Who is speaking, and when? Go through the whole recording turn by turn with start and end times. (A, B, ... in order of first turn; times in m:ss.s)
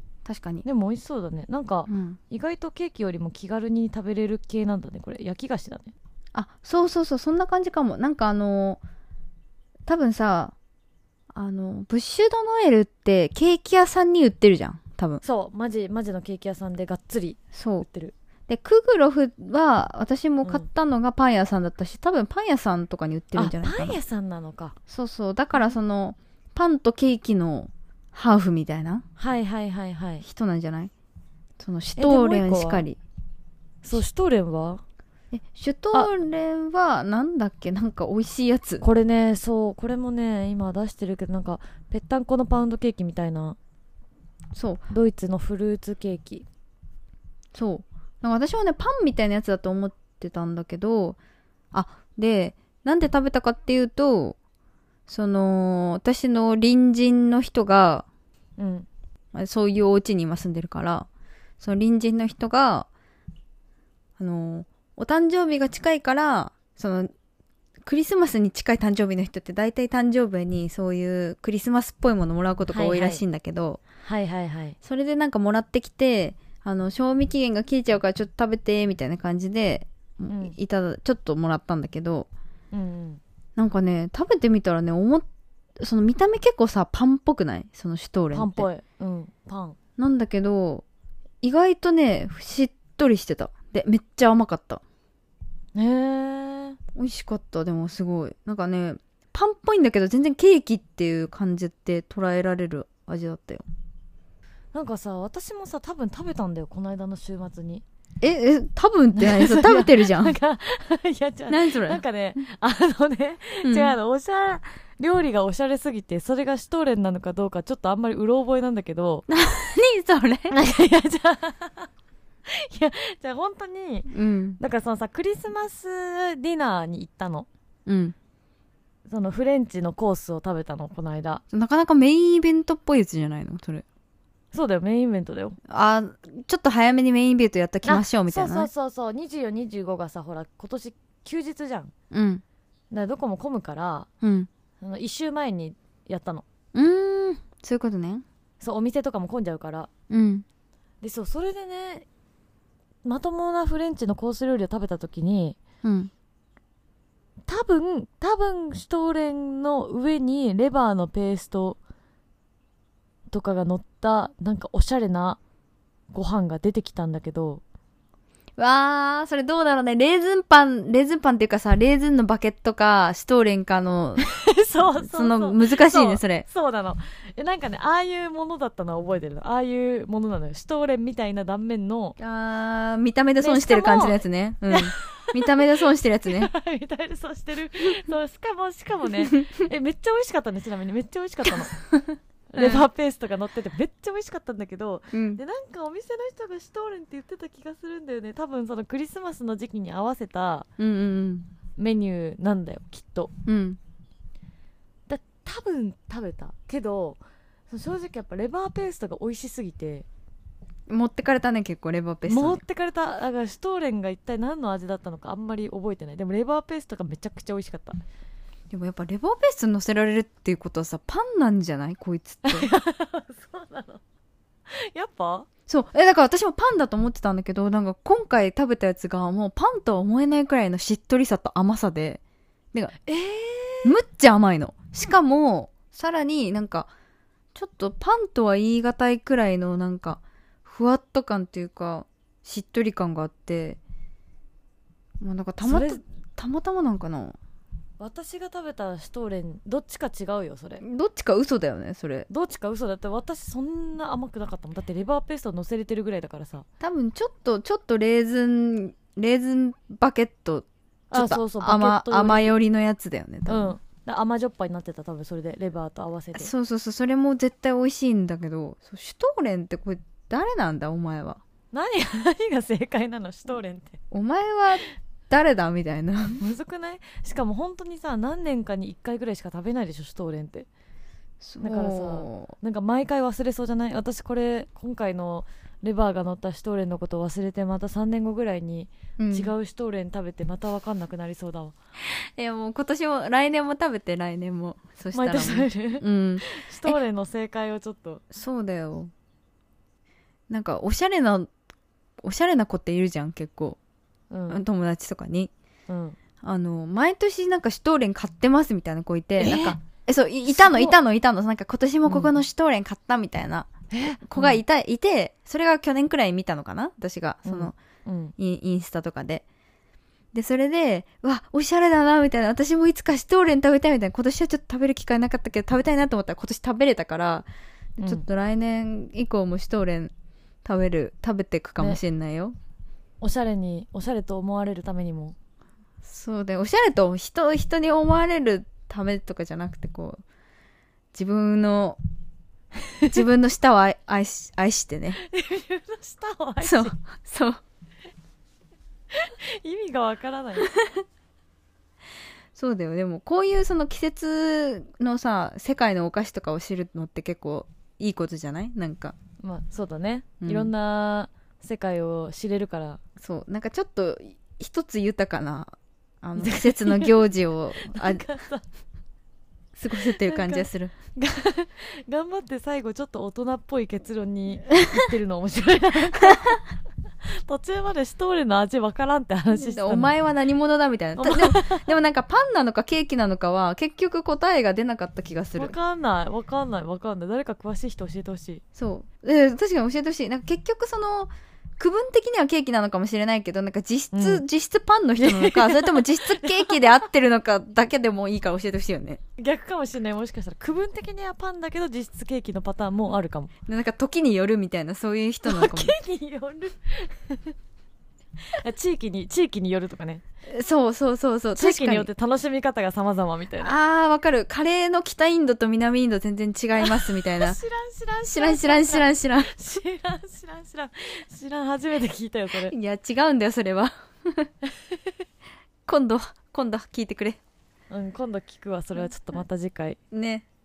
0:00.2-0:00.6 A
0:00.6-0:05.9 B
0:01.9-0:02.2 A
0:06.3-0:08.8 A
0:09.9-0:10.5 A
0:11.3-0:15.2 A
0:15.2-0:18.1 B
0:17.5-0:17.9 A
0:18.5-0:24.0 A
0:23.4-0:24.8 B
0:24.9-0:29.1 A
0:29.2-0:30.2 B
0:30.2-0:30.9 A
0:31.6-0:33.0 A
0:31.9-0:32.8 B
0:33.8-0:34.8 B
0:35.3-0:38.8 A
0:38.8-0:43.6 B
0:44.6-0:44.9 A
0:44.9-0:46.4 B
0:47.5-0:51.2 A
0:51.7-0:54.4 A
0:55.1-0:58.1 A
0:58.6-0:58.9 B
0:59.4-1:01.1 A
1:01.6-1:02.9 A
1:04.2-1:07.1 A
1:07.8-1:13.8 A
1:12.7-1:13.2 B
1:14.0-1:14.8 B
1:14.8-1:22.3 A
1:20.3-1:20.5 B
1:22.7-1:23.2 B
1:23.6-1:25.2 A
1:25.8-1:28.7 A
1:28.3-1:29.8 B
1:30.0-1:30.8 A
1:31.4-1:34.8 A
1:35.8-1:36.8 B
1:37.0-1:43.6 A
1:44.7-1:47.8 B
1:48.2-1:50.4 A
1:49.2-1:59.2 B
1:51.5-1:52.0 A
1:53.6-1:54.0 A
1:59.3-2:00.5 A
2:00.5-2:01.9 B
2:02.5-2:07.5 B
2:04.1-2:04.6 A
2:07.9-2:08.1 A
2:09.1-2:11.4 B
2:11.5-2:13.8 A
2:14.5-2:15.6 B
2:15.7-2:18.7 A
2:17.9-2:21.9 B
2:22.1-2:22.4 A
2:22.9-2:24.1 B
2:24.2-2:24.5 A
2:24.8-2:26.4 B
2:26.8-2:28.2 A
2:28.6-2:29.9 B
2:30.1-2:30.4 A
2:31.0-2:32.1 B
2:33.0-2:35.6 B
2:35.8-2:36.1 A
2:37.5-2:41.8 B
2:43.3-2:45.4 B
2:46.1-2:47.6 B
2:48.6-2:54.3 A
2:54.4-3:02.2 B
2:55.0-2:56.4 A
3:02.2-3:06.5 A
3:03.4-3:05.6 B
3:06.2-3:11.8 B
3:12.5-3:20.7 B
3:12.6-3:12.9 A
3:15.1-3:15.4 A
3:20.8-3:21.5 A
3:21.8-3:23.3 B
3:23.5-3:23.8 A
3:25.1-3:30.1 B
3:30.9-3:32.6 A
3:32.3-3:38.0 B
3:38.7-3:42.7 A
3:42.5-3:44.0 B
3:44.7-3:45.5 B
3:45.7-3:52.2 A
3:53.1-3:54.0 B
3:53.8-3:56.9 A
3:57.5-4:03.8 A
4:05.2-4:07.4 A
4:05.6-4:06.0 B
4:08.0-4:10.8 B
4:10.8-4:12.3 A
4:12.3-4:16.6 B
4:16.8-4:23.8 A
4:21.1-4:22.5 B
4:23.5-4:26.5 B
4:26.4-4:31.4 A
4:31.7-4:34.0 B
4:34.1-4:36.4 A
4:36.4-4:40.7 B
4:41.4-4:42.5 A
4:41.6-4:51.7 B
4:49.2-4:49.5 A
4:52.4-4:57.0 A
4:55.1-4:58.3 B
4:58.3-4:59.1 A
5:00.5-5:01.5 A
5:02.2-5:03.8 A
5:04.3-5:04.6 B
5:04.5-5:05.5 A
5:05.9-5:06.2 B
5:06.4-5:13.7 A
5:09.4-5:09.8 B
5:10.5-5:11.0 B
5:12.1-5:12.4 B
5:13.9-5:14.6 B
5:14.3-5:17.7 A
5:17.4-5:18.3 B
5:18.4-5:19.4 A
5:20.3-5:30.1 A
5:28.0-5:28.2 B
5:30.6-5:32.5 A
5:33.2-5:35.4 B
5:36.0-5:40.2 A
5:41.1-5:42.0 A
5:43.1-5:45.2 A
5:45.2-5:47.0 B
5:46.6-5:47.6 A
5:49.1-5:50.7 B
5:52.5-5:59.2 A
5:59.4-6:03.0 B
6:00.4-6:00.7 A
6:03.2-6:08.3 A
6:06.4-6:07.2 B
6:07.8-6:08.6 B
6:09.8-6:10.9 A
6:09.9-6:16.6 B
6:17.4-6:20.1 B
6:19.5-6:25.8 A
6:21.2-6:21.9 B
6:25.6-6:28.6 B
6:28.8-6:39.2 A
6:34.1-6:34.4 B
6:35.2-6:36.9 B
6:39.4-6:43.5 B
6:43.7-6:46.0 A
6:45.4-6:47.5 B
6:48.5-6:50.2 B
6:50.5-6:52.1 A
6:51.5-6:53.8 B
6:53.6-6:57.6 A
6:56.8-7:02.7 B
6:58.3-6:59.5 A
7:02.6-7:04.5 A
7:05.9-7:07.4 A
7:07.9-7:10.0 B
7:10.1-7:10.4 A